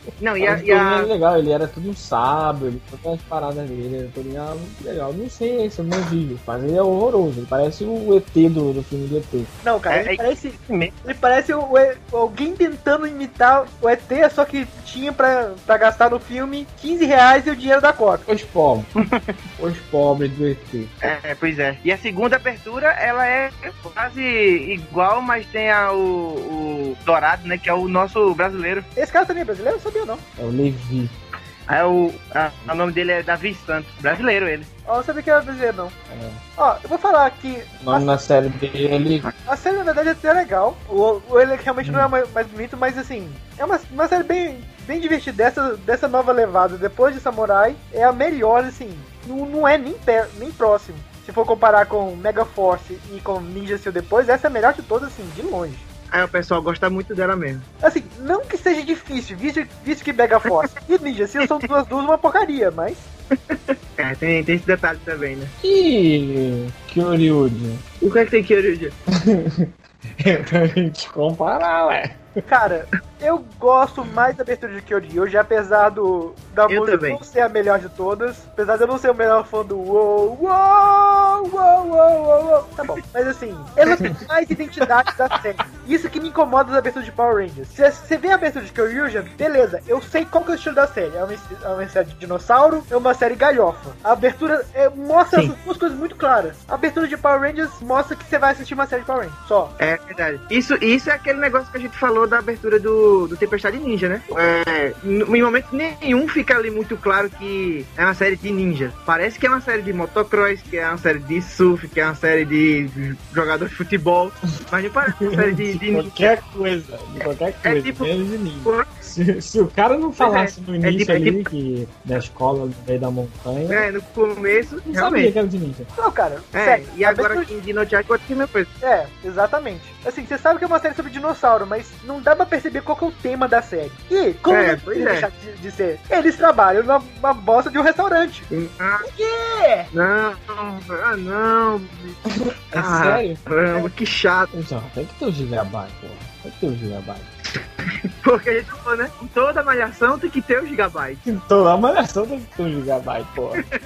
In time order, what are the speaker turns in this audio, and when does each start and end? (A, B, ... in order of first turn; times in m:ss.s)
0:00.2-0:01.1 A
0:00.4-0:09.5 B
0:09.6-0:18.3 C
0:09.9-0:10.9 A
0:18.3-0:18.9 B
0:19.0-0:19.3 A
0:19.6-0:20.9 B
0:21.0-0:28.9 A
0:29.0-0:30.2 C
0:30.4-0:31.2 B
0:31.7-0:34.7 A
0:34.9-0:36.0 C
0:36.1-0:36.4 B
0:36.6-0:38.1 C
0:37.8-0:39.3 B
0:39.5-0:55.9 C
0:41.8-0:42.1 B
0:56.1-0:57.7 A
0:57.8-1:03.1 C
1:03.5-1:05.5 A
1:05.6-1:07.8 B
1:08.0-1:09.0 A
1:09.1-1:12.2 B
1:12.5-1:39.7 C
1:16.7-1:17.2 A
1:39.8-1:56.3 A
1:55.2-2:03.9 B
1:57.6-1:58.1 A
2:00.2-2:01.5 A
2:03.7-2:05.3 A
2:04.9-2:05.9 B
2:06.0-2:07.5 C
2:06.5-2:08.7 A
2:08.8-2:18.5 C
2:14.5-2:15.3 A
2:18.5-2:19.0 A
2:19.0-2:19.9 C
2:19.9-2:22.2 A
2:22.4-2:23.4 B
2:22.7-2:24.5 A
2:24.5-2:27.3 B
2:28.2-2:31.2 A
2:31.2-2:33.6 B